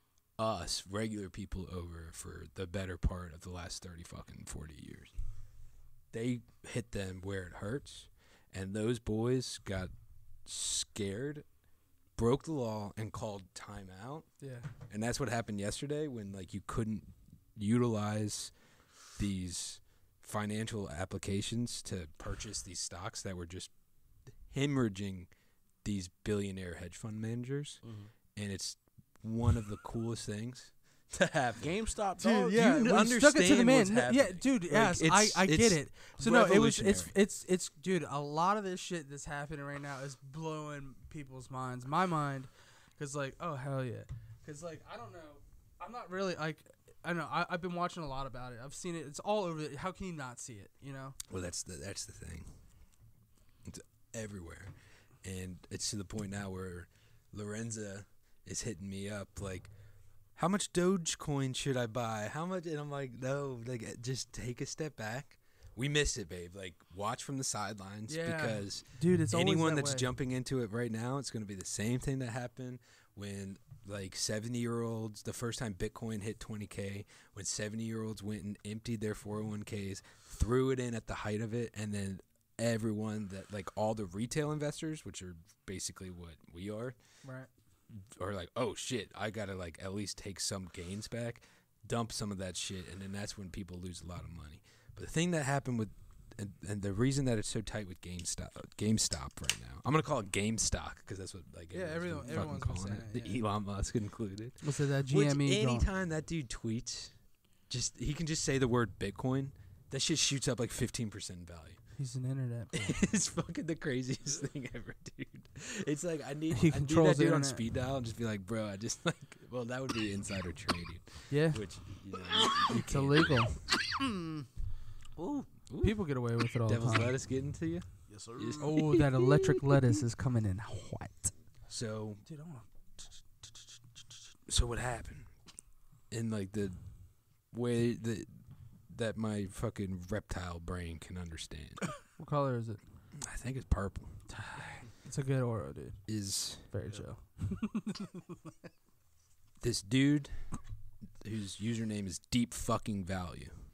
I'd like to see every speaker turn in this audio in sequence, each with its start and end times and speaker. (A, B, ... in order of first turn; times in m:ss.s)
0:00.4-0:05.1 A
0:06.1-0:09.9 A
0:10.4-0:11.5 A
0:12.2-0:14.3 A
0:14.4-0:14.7 B
0:14.9-0:18.5 A
0:19.2-0:23.7 A
0:24.5-0:25.3 A
0:25.8-0:27.8 A
0:27.8-0:28.1 C
0:28.4-0:31.8 A
0:31.6-0:32.9 C
0:32.2-0:51.2 B
0:32.5-0:37.2 A
0:51.3-0:52.5 A
0:53.6-0:59.7 A
1:00.4-1:27.0 A
1:08.1-1:10.1 B
1:27.2-1:27.5 B
1:28.2-1:47.1 A
1:41.7-1:43.4 B
1:44.6-1:45.9 B
1:47.7-1:51.8 A
1:52.0-1:53.0 B
1:52.7-2:03.6 A
1:56.5-1:57.6 B
2:01.3-2:01.6 B
2:02.8-2:03.5 B
2:04.0-2:04.4 C
2:05.2-2:06.0 A
2:05.8-2:07.1 B
2:06.6-2:09.3 A
2:08.1-2:08.7 C
2:08.6-2:11.3 B
2:11.7-2:12.2 A
2:12.3-2:13.5 B
2:14.5-2:15.3 A
2:16.1-2:16.8 A
2:17.5-2:18.3 A
2:18.9-2:21.9 A
2:22.2-2:22.8 B
2:23.2-2:24.2 A
2:24.3-2:26.0 B
2:26.1-2:26.7 A
2:26.7-2:28.1 B
2:29.6-2:30.4 A
2:31.2-2:33.6 A